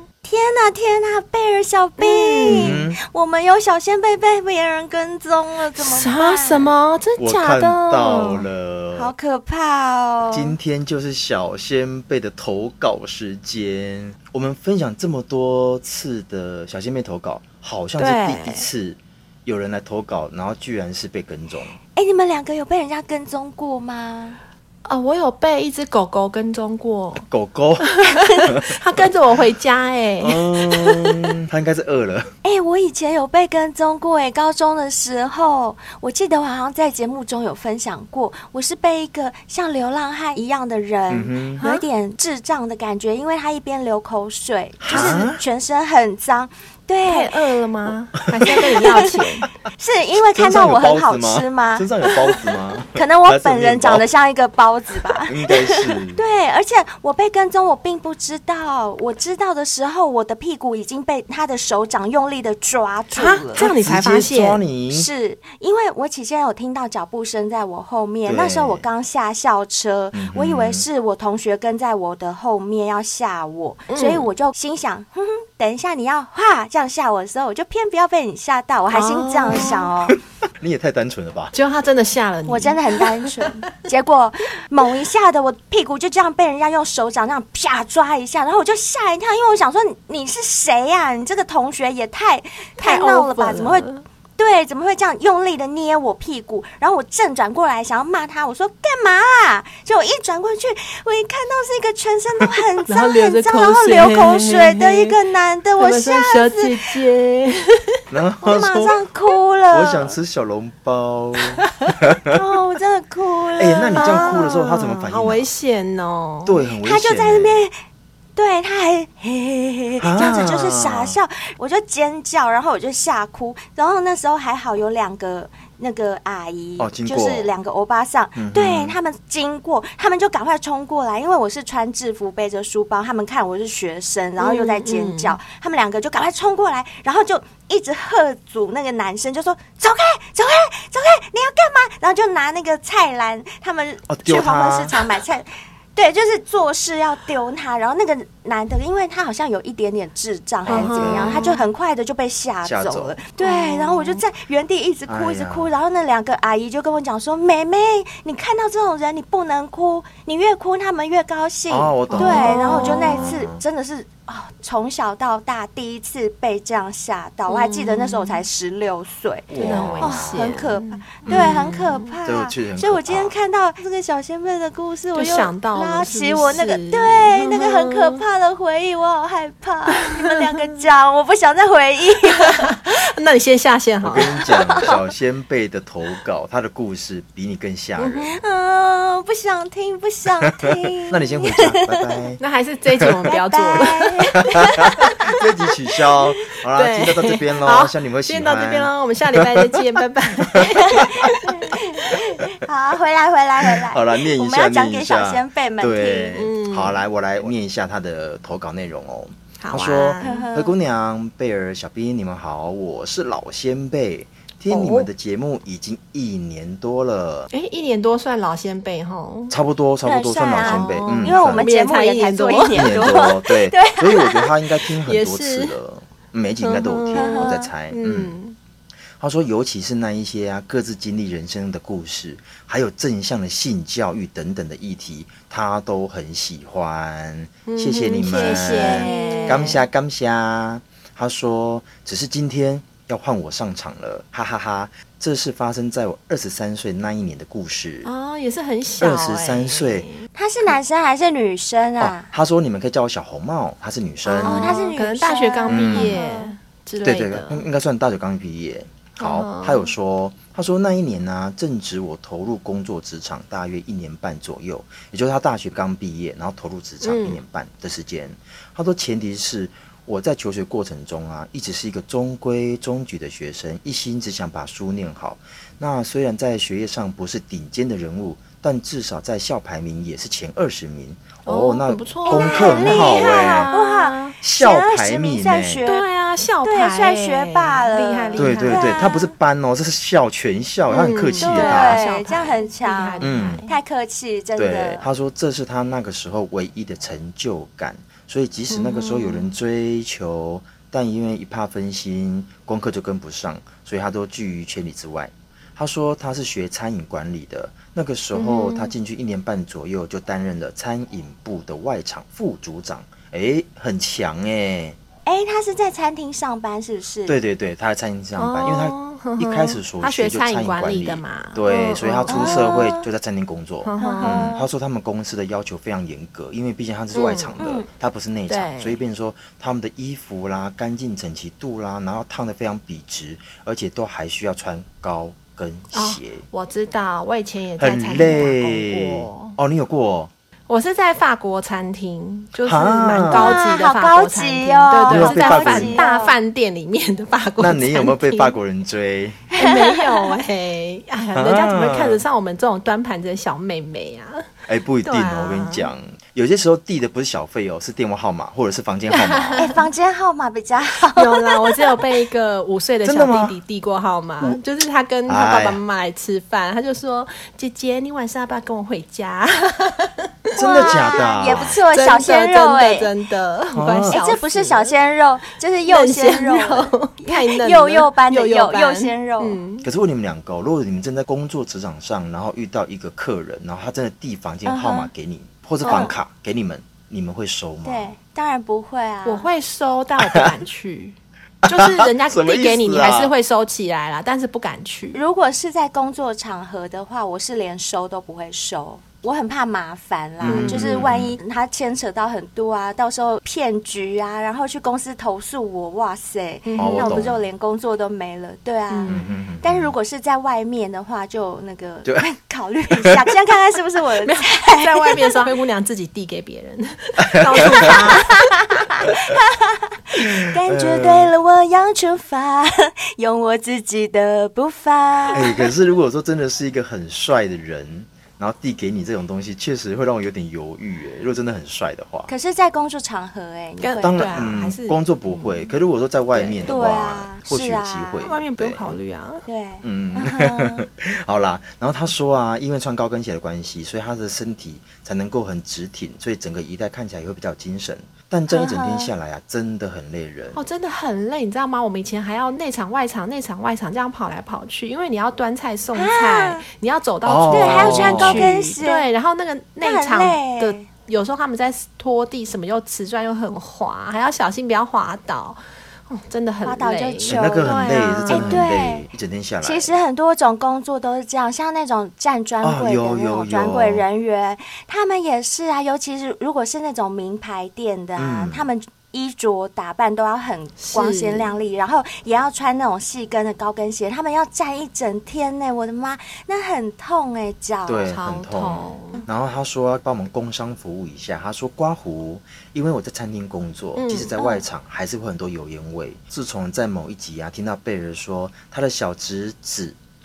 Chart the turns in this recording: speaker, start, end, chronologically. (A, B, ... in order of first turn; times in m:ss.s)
0:00.2-0:06.7 A
0:02.0-0:02.8 B
0:02.5-0:03.0 C
0:05.8-0:08.4 B
0:07.2-0:09.1 C
0:08.9-0:10.5 A
0:10.3-0:21.8 C
0:18.0-0:18.7 B
0:21.9-0:24.4 A
0:24.8-0:27.2 B
0:27.2-0:27.9 C
0:27.8-0:31.1 B
0:28.5-0:28.7 C
0:30.2-0:32.3 C
0:32.4-0:47.3 A
0:41.1-0:41.6 C
0:44.8-0:45.4 C
0:44.9-0:45.2 B
0:47.0-0:49.5 B
0:48.3-0:48.8 C
0:48.4-0:49.2 A
0:49.8-0:52.1 A
0:50.2-0:54.0 C
0:52.9-1:03.7 A
0:55.1-0:56.2 C
1:03.1-1:04.6 B
1:03.6-1:05.1 C
1:04.9-1:20.2 A
1:08.2-1:08.8 C
1:10.1-1:10.8 C
1:13.9-1:14.3 B
1:18.9-1:19.9 B
1:20.1-1:21.5 C
1:21.5-1:23.5 B
1:22.5-1:46.9 A
1:32.8-1:34.0 B
1:42.9-1:45.1 B
1:45.8-1:47.9 B
1:48.1-1:49.0 C
1:48.4-1:50.2 A
1:49.7-1:52.3 C
1:52.3-1:54.4 A
1:53.6-1:55.5 C
1:53.9-1:56.6 B
1:56.4-1:57.6 C
1:56.8-1:57.7 A
1:58.4-3:02.9 A
2:00.0-2:01.2 C
2:06.8-2:07.5 C
2:08.3-2:09.0 C
2:14.4-2:15.4 B
2:24.1-2:24.9 C
2:30.6-2:31.5 C
2:30.7-2:31.6 B
2:32.6-2:33.1 C
2:33.4-2:34.2 B
2:35.1-2:35.7 C
2:41.7-2:43.6 C
2:42.1-2:43.3 B
2:47.5-2:48.4 B
2:49.5-2:50.5 C
2:49.6-2:52.1 B
2:51.2-2:53.3 C
2:55.1-2:58.2 B
3:02.3-3:04.3 B
3:04.0-3:08.3 C
3:04.2-3:04.9 A
3:08.0-3:08.4 B
3:08.3-3:12.2 A
3:10.7-3:12.4 C
3:12.4-3:14.3 B
3:13.0-3:13.3 C
3:13.3-3:15.4 A
3:14.5-3:19.9 C
3:16.7-3:21.4 B
3:20.5-3:21.3 C
3:20.8-3:26.3 A
3:23.9-3:37.5 C
3:26.3-3:27.0 B
3:29.6-3:30.5 B
3:30.2-3:30.7 A
3:34.7-3:35.1 B
3:37.5-3:39.5 B
3:39.5-3:41.7 C
3:40.0-3:44.5 A
3:40.6-3:43.3 B
3:42.7-3:48.4 C
3:45.0-3:45.7 B
3:46.6-3:48.6 B
3:47.1-3:47.6 A
3:49.2-4:08.1 C
3:57.6-3:59.8 B
3:58.3-3:59.7 A
4:08.0-4:10.2 B
4:09.0-4:10.1 C
4:10.3-4:12.3 A
4:12.0-4:14.8 C
4:14.2-4:16.5 A
4:14.4-4:17.6 B
4:15.7-4:16.2 C
4:17.0-4:43.7 C
4:19.2-4:19.9 B
4:27.0-4:27.4 B
4:41.4-4:44.3 B
4:42.2-4:46.0 A
4:44.4-4:45.8 C
4:45.8-4:49.1 B
4:46.6-4:49.3 A
4:48.4-4:52.0 C
4:50.9-4:53.7 B
4:51.4-4:55.0 A
4:53.2-4:53.6 C
4:54.6-5:15.0 C
4:58.7-4:59.5 B
5:08.3-5:08.9 B
5:15.2-5:17.4 A
5:17.2-5:36.4 C
5:18.4-5:22.9 B
5:22.3-5:23.0 A
5:23.8-5:24.5 B
5:24.0-5:24.6 A
5:27.1-5:27.5 B
5:27.6-5:27.9 A
5:28.5-5:29.0 B
5:35.9-5:39.6 B
5:37.8-5:40.3 C
5:40.7-5:48.6 B
5:42.6-5:43.6 C
5:43.3-5:46.4 A
5:45.0-5:46.0 C
5:47.6-5:49.5 C
5:49.5-5:50.3 A
5:49.6-5:54.5 B
5:51.3-5:52.2 C
5:54.7-5:59.7 C
5:55.0-5:55.9 B
5:59.1-5:59.8 B
5:59.6-6:02.0 A
6:01.1-6:14.9 B
6:03.0-6:03.6 C
6:05.3-6:05.8 C
6:10.5-6:13.1 A
6:10.6-6:11.8 C
6:13.7-6:14.2 C
6:14.1-6:19.6 A
6:15.8-6:19.9 B
6:19.8-6:28.1 C
6:24.6-6:25.1 A
6:25.8-6:26.1 B
6:25.8-6:26.1 A
6:27.8-6:29.5 A
6:29.2-6:35.2 B
6:30.2-6:30.5 C
6:31.6-6:33.3 C
6:35.1-6:55.5 A
6:40.4-6:41.4 C
6:40.4-6:40.9 B
6:46.6-6:47.2 B
6:46.8-6:47.4 C
6:48.9-6:49.3 B
6:49.1-6:49.9 C
6:54.2-6:58.5 B
6:57.2-6:57.9 C
6:57.5-7:05.6 A
7:00.2-7:01.3 C
7:05.3-7:12.3 C
7:12.3-7:14.4 A
7:13.8-7:15.7 B
7:14.0-7:19.0 C
7:16.3-7:16.7 B
7:16.6-7:18.4 A
7:18.2-7:19.4 B
7:19.5-7:20.8 A
7:19.8-7:30.6 C
7:28.5-7:29.1 A
7:30.5-7:48.6 B
7:35.9-7:36.6 A
7:37.2-7:38.5 C
7:37.5-7:39.1 A
7:39.8-7:40.8 A
7:46.6-7:47.8 A
7:47.3-7:50.0 C
7:48.3-7:49.1 A
7:49.6-8:08.1 A
7:52.6-7:54.0 C
7:58.2-7:58.7 C
8:00.8-8:01.5 B
8:07.8-8:20.0 C
8:08.0-8:09.2 B
8:14.0-8:14.4 B